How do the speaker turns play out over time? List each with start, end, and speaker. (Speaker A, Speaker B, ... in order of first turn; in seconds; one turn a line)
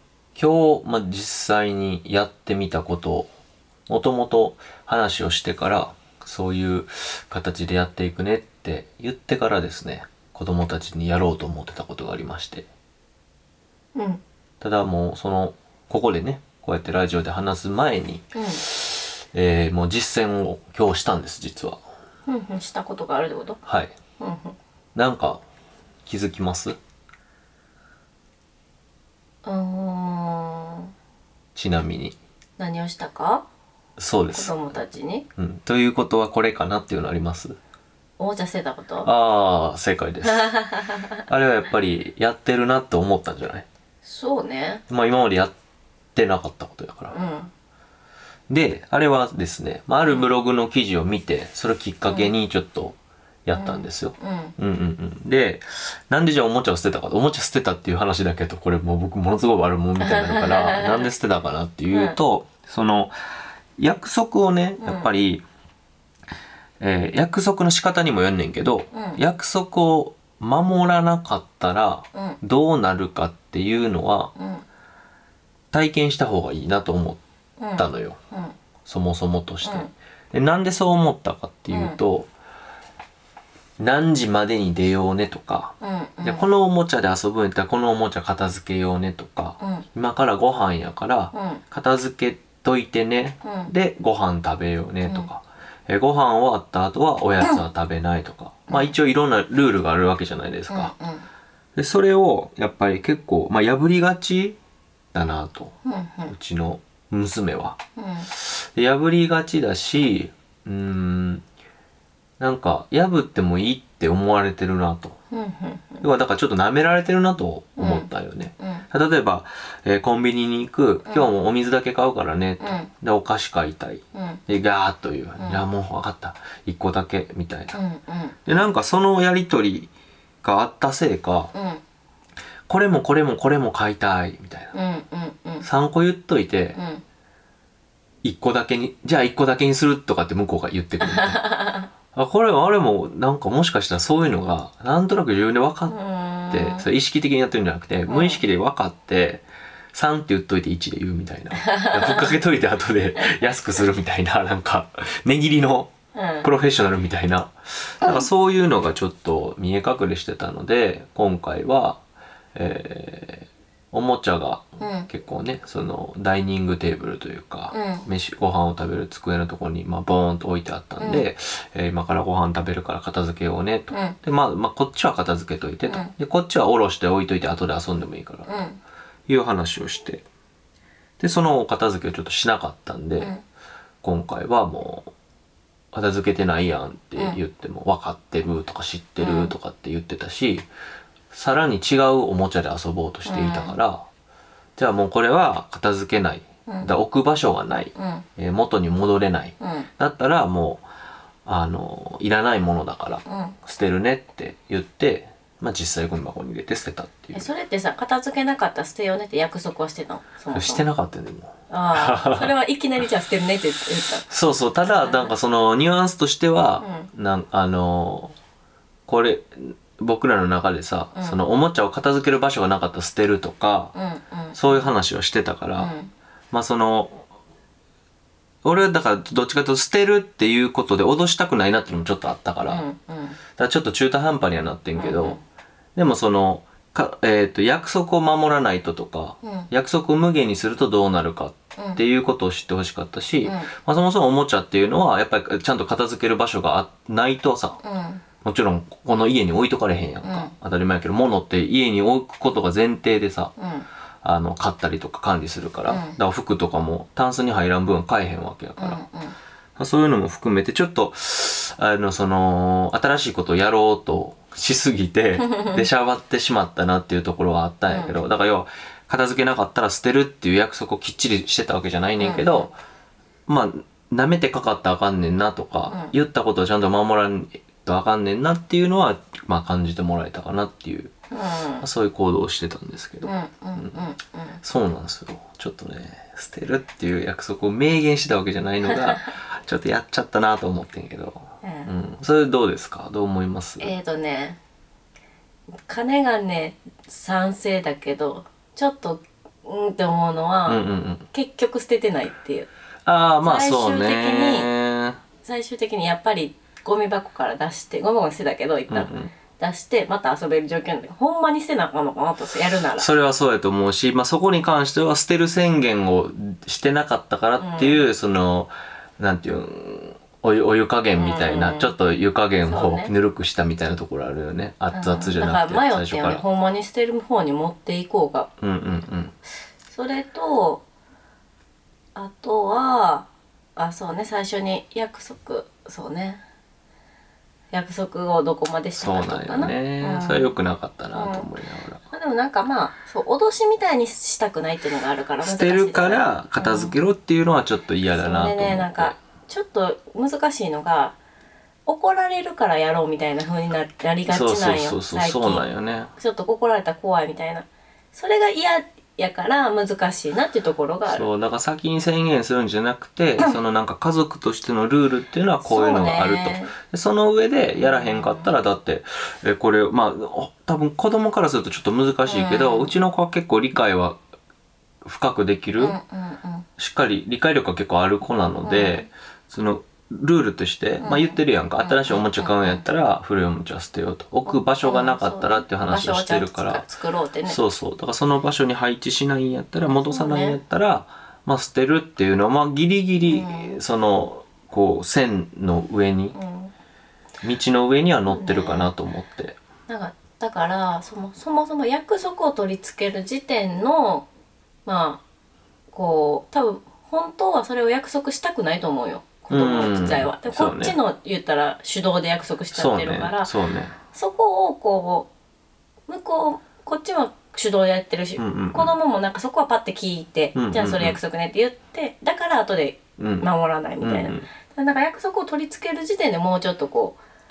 Speaker A: 0.3-3.3
Speaker A: 3.9-12.7
Speaker B: 13.9-14.2
Speaker A: 14.6-21.8
Speaker B: 18.3-18.6
Speaker B: 22.3-23.6
Speaker A: 23.6-23.9
Speaker B: 24.2-24.6
Speaker A: 24.9-25.4
Speaker A: 26.1-26.8
Speaker B: 29.4-30.9
Speaker A: 31.5-32.2
Speaker B: 32.6-33.5
Speaker A: 34.0-34.8
Speaker B: 34.3-35.3
Speaker A: 35.4-37.6
Speaker B: 38.2-39.1
Speaker A: 39.0-43.6
Speaker B: 40.3-41.2
Speaker B: 44.0-44.8
Speaker A: 44.9-45.5
Speaker A: 46.1-47.1
Speaker B: 47.1-47.5
Speaker A: 48.5-63.1
Speaker B: 52.1-52.3
Speaker B: 53.5-54.5
Speaker B: 60.0-61.1
Speaker B: 61.9-62.2
Speaker A: 63.8-65.4
Speaker B: 64.8-65.1
Speaker A: 66.8-74.3
Speaker B: 68.9-69.2
Speaker B: 72.1-72.4
Speaker B: 74.3-74.6
Speaker A: 75.7-77.2
Speaker B: 77.6-78.5
Speaker A: 77.8-78.2
Speaker A: 78.8-82.3
Speaker B: 79.6-79.9
Speaker B: 81.7-82.0
Speaker A: 83.8-100.9
Speaker B: 85.8-86.5
Speaker B: 89.6-89.8
Speaker B: 91.3-91.6
Speaker B: 93.4-93.7
Speaker B: 98.7-98.9
Speaker B: 100.7-101.3
Speaker A: 101.8-104.6
Speaker A: 105.1-105.7
Speaker B: 105.8-106.3
Speaker A: 106.3-111.4
Speaker B: 108.0-108.3
Speaker A: 112.4-115.2
Speaker B: 115.3-116.0
Speaker A: 116.0-127.8
Speaker B: 117.8-118.8
Speaker B: 121.0-121.3
Speaker B: 122.6-122.9
Speaker B: 124.1-124.4
Speaker B: 125.4-125.6
Speaker B: 127.7-128.5
Speaker A: 128.4-129.9
Speaker A: 130.4-131.5
Speaker B: 131.5-131.8
Speaker A: 132.7-134.7
Speaker B: 134.7-135.7
Speaker A: 135.6-136.8
Speaker B: 136.7-137.0
Speaker A: 138.2-141.4
Speaker B: 141.0-141.9
Speaker A: 142.1-145.9
Speaker B: 145.9-146.9
Speaker A: 146.5-155.9
Speaker B: 148.1-148.4
Speaker B: 151.6-152.3
Speaker B: 156.1-156.5
Speaker A: 156.4-162.0
Speaker A: 162.5-178.5
Speaker B: 164.8-165.1
Speaker B: 167.7-168.1
Speaker B: 171.0-171.2
Speaker B: 173.9-174.2
Speaker B: 175.9-176.1
Speaker B: 178.5-178.8
Speaker A: 179.3-180.2
Speaker A: 181.2-183.3
Speaker B: 183.2-183.4
Speaker A: 184.0-185.1
Speaker A: 185.9-190.7
Speaker B: 189.2-189.5
Speaker A: 191.3-194.1
Speaker B: 193.2-193.8
Speaker A: 194.8-200.8
Speaker B: 196.7-196.9
Speaker B: 197.9-198.2
Speaker B: 199.6-199.9
Speaker A: 201.4-207.5
Speaker B: 203.2-203.6
Speaker B: 207.3-210.8
Speaker A: 210.5-212.5
Speaker B: 211.7-214.3
Speaker A: 214.3-218.3
Speaker B: 214.9-215.3
Speaker B: 216.8-217.1
Speaker A: 219.1-223.9
Speaker B: 221.1-221.4
Speaker B: 223.9-224.9
Speaker A: 224.5-225.9
Speaker B: 225.8-226.1
Speaker A: 226.5-227.2
Speaker A: 228.6-232.8
Speaker B: 232.7-233.4
Speaker A: 233.6-235.4
Speaker B: 234.9-235.4
Speaker A: 235.9-247.8
Speaker B: 239.4-239.7
Speaker B: 243.4-243.7
Speaker B: 247.8-248.2
Speaker A: 248.4-253.5
Speaker B: 250.2-250.5
Speaker B: 253.6-253.8
Speaker A: 254.2-259.0
Speaker B: 255.9-256.2
Speaker B: 258.8-259.3
Speaker A: 259.8-272.8
Speaker B: 265.4-265.8
Speaker B: 267.9-268.1
Speaker B: 272.2-272.7
Speaker A: 273.5-281.1
Speaker B: 275.9-276.1
Speaker B: 281.3-281.9
Speaker A: 281.8-284.0
Speaker B: 283.2-284.6
Speaker A: 284.6-293.9
Speaker B: 291.6-291.9
Speaker B: 293.8-294.6
Speaker B: 295.9-302.7
Speaker A: 300.7-301.2
Speaker A: 303.1-305.2
Speaker B: 303.4-304.7
Speaker B: 305.4-313.1
Speaker A: 308.9-309.3
Speaker A: 312.9-326.4
Speaker B: 317.6-318.0
Speaker B: 321.2-321.9
Speaker B: 322.6-323.1
Speaker B: 324.9-328.5
Speaker A: 328.6-329.3
Speaker B: 329.9-330.8
Speaker B: 332.1-336.4
Speaker B: 337.7-340.5
Speaker A: 339.0-342.0
Speaker B: 341.1-341.5
Speaker B: 342.1-346.9
Speaker A: 345.4-349.2
Speaker B: 348.1-351.1
Speaker B: 351.9-355.6
Speaker A: 354.3-356.1
Speaker B: 356.2-361.3
Speaker A: 361.1-374.2
Speaker B: 365.6-366.8
Speaker B: 367.8-368.5
Speaker B: 372.2-372.9
Speaker A: 375.0-376.0
Speaker B: 375.8-376.7
Speaker A: 376.8-386.9
Speaker B: 378.6-379.1
Speaker B: 381.0-382.8
Speaker B: 384.5-387.6
Speaker A: 387.4-396.4
Speaker B: 389.9-390.6
Speaker B: 393.2-393.8
Speaker B: 396.3-396.7
Speaker A: 397.4-399.6
Speaker B: 398.3-398.9
Speaker B: 399.9-404.3
Speaker B: 404.9-405.2
Speaker B: 405.9-413.5
Speaker A: 409.5-411.0
Speaker A: 412.7-413.9
Speaker B: 414.1-415.3
Speaker B: 416.1-427.2
Speaker A: 418.4-418.9
Speaker A: 420.5-421.2
Speaker A: 423.2-423.5
Speaker A: 424.0-424.5